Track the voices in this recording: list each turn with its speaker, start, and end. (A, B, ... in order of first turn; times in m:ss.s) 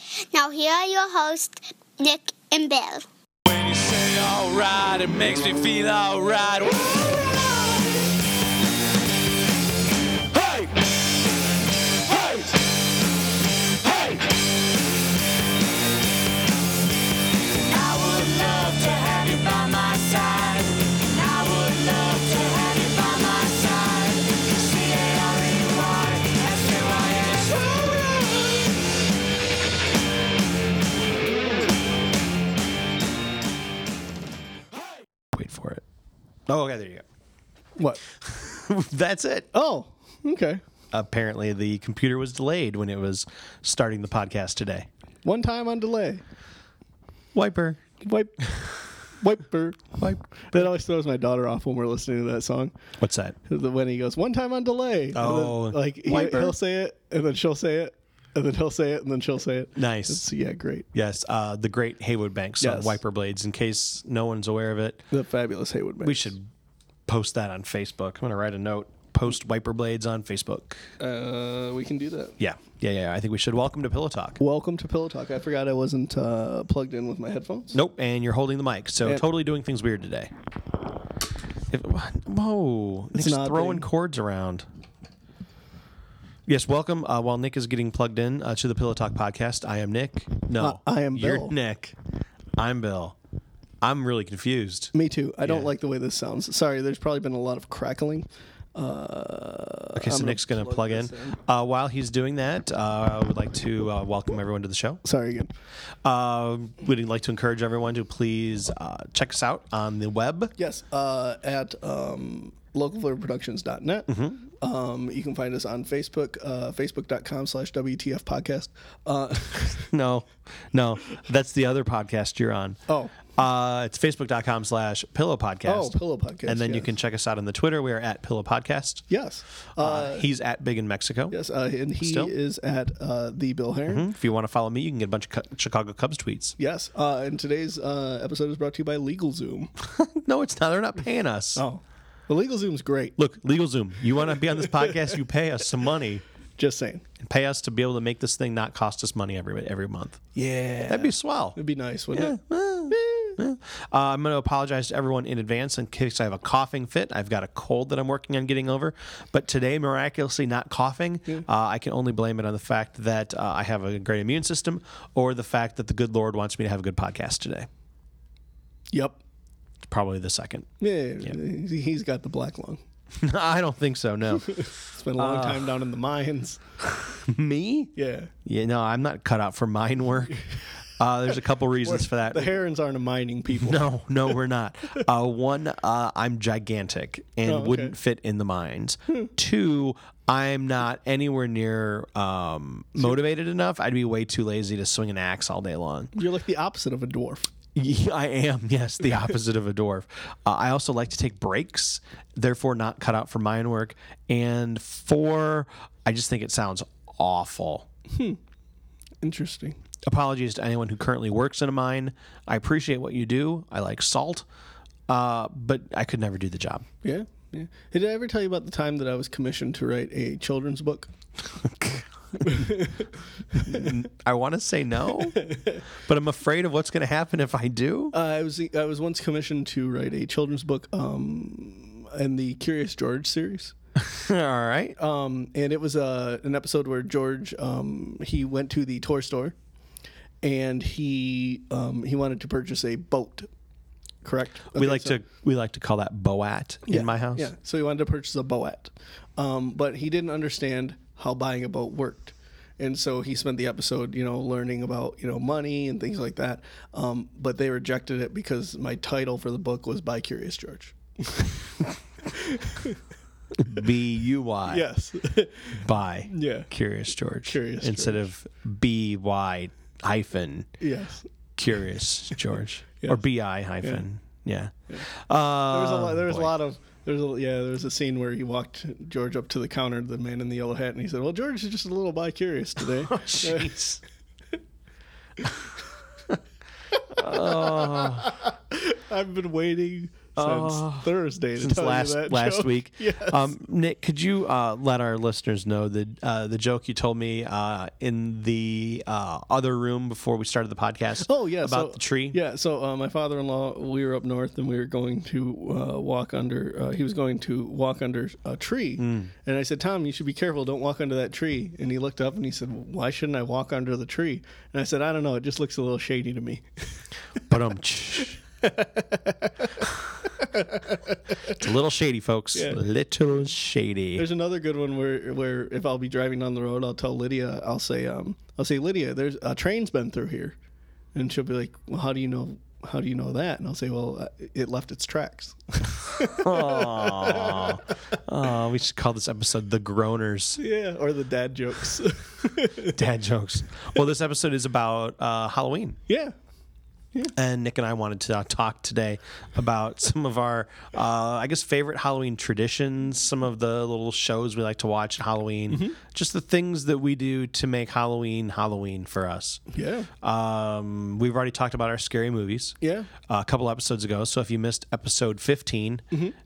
0:00.3-0:03.0 A
0:03.4-0:07.4 B
0:10.3-0:10.8 B
0:12.1-0:12.5 B
0:17.6-0:28.0 B
0:35.3-0:35.8 C
0:36.5-0:37.0 C
0:38.2-0:39.5 C
0:39.5-0:40.6 D
0:40.9-0:44.9 C
0:45.2-0:46.2 D
0:47.3-0:47.8 C
0:48.0-0:48.5 D
0:49.1-0:50.0 D
0:50.0-0:50.7 C
0:50.5-0:52.7 D
0:53.0-0:53.4 C
0:53.5-1:00.9 D
0:55.1-0:56.5 C
0:59.8-1:00.2 C
1:00.9-1:05.0 C
1:02.6-1:03.0 D
1:05.1-1:06.3 D
1:06.0-1:06.5 C
1:07.1-1:10.8 C
1:11.0-1:12.4 D
1:12.4-1:14.4 C
1:14.4-1:17.8 D
1:17.7-1:20.3 C
1:21.7-1:24.6 C
1:23.2-1:23.9 D
1:26.5-1:32.0 C
1:30.6-1:31.6 D
1:32.6-1:33.2 C
1:33.8-1:35.7 C
1:34.9-1:41.4 D
1:40.0-1:45.0 C
1:45.0-1:45.5 D
1:46.0-1:50.5 C
1:50.6-1:59.9 D
1:54.1-1:54.4 C
1:59.9-2:02.8 C
2:02.9-2:03.1 D
2:03.3-2:09.0 C
2:05.6-2:06.9 D
2:09.1-2:10.3 D
2:09.8-2:11.3 C
2:11.3-2:14.0 D
2:12.0-2:12.3 C
2:13.9-2:16.5 C
2:16.6-2:19.7 D
2:19.8-2:21.6 C
2:21.6-2:23.2 D
2:23.2-2:26.2 C
2:26.6-2:27.0 D
2:27.2-2:30.2 C
2:30.3-2:32.4 D
2:30.9-2:31.6 C
2:32.1-2:47.7 C
2:32.9-2:33.4 D
2:48.9-2:49.2 D
2:49.8-2:50.7 C
2:50.8-2:52.8 D
2:53.2-2:55.8 C
2:54.5-2:56.6 D
2:56.8-2:57.9 C
2:58.0-2:58.3 D
2:58.4-3:00.4 C
3:01.0-3:02.6 C
3:01.8-3:03.8 D
3:03.5-3:16.1 C
3:07.4-3:07.9 D
3:16.1-3:17.5 D
3:17.7-3:27.9 C
3:28.1-3:28.4 D
3:29.2-3:29.8 D
3:30.0-3:34.4 C
3:35.1-3:36.8 C
3:37.0-3:41.1 D
3:41.6-3:42.5 C
3:42.4-3:43.1 D
3:43.6-3:45.5 C
3:43.6-3:44.0 D
3:45.3-3:45.8 D
3:46.0-3:48.1 C
3:48.1-3:53.7 D
3:54.0-3:55.0 C
3:55.0-3:59.6 D
4:00.4-4:03.5 D
4:04.2-4:05.2 D
4:04.7-4:07.5 C
4:06.9-4:21.5 D
4:22.3-4:23.0 D
4:23.6-4:24.8 C
4:24.7-4:26.7 D
4:25.7-4:30.7 C
4:27.4-4:28.2 D
4:30.8-4:31.2 D
4:31.6-4:36.5 C
4:35.7-4:43.7 D
4:43.0-4:44.0 C
4:46.9-4:53.5 D
4:47.2-4:48.3 C
4:50.4-5:02.4 C
5:01.2-5:16.9 D
5:09.0-5:09.3 C
5:17.5-5:18.4 C
5:18.6-5:21.6 D
5:21.5-5:24.3 C
5:22.5-5:22.8 D
5:24.2-5:30.6 D
5:31.1-5:37.8 D
5:36.2-5:40.6 C
5:40.6-5:43.0 D
5:42.9-5:46.0 C
5:46.1-5:46.3 D
5:47.3-5:59.6 C
5:55.7-5:56.0 D
5:59.7-6:00.1 D
6:00.2-6:06.0 C
6:02.8-6:03.1 D
6:06.1-6:06.4 D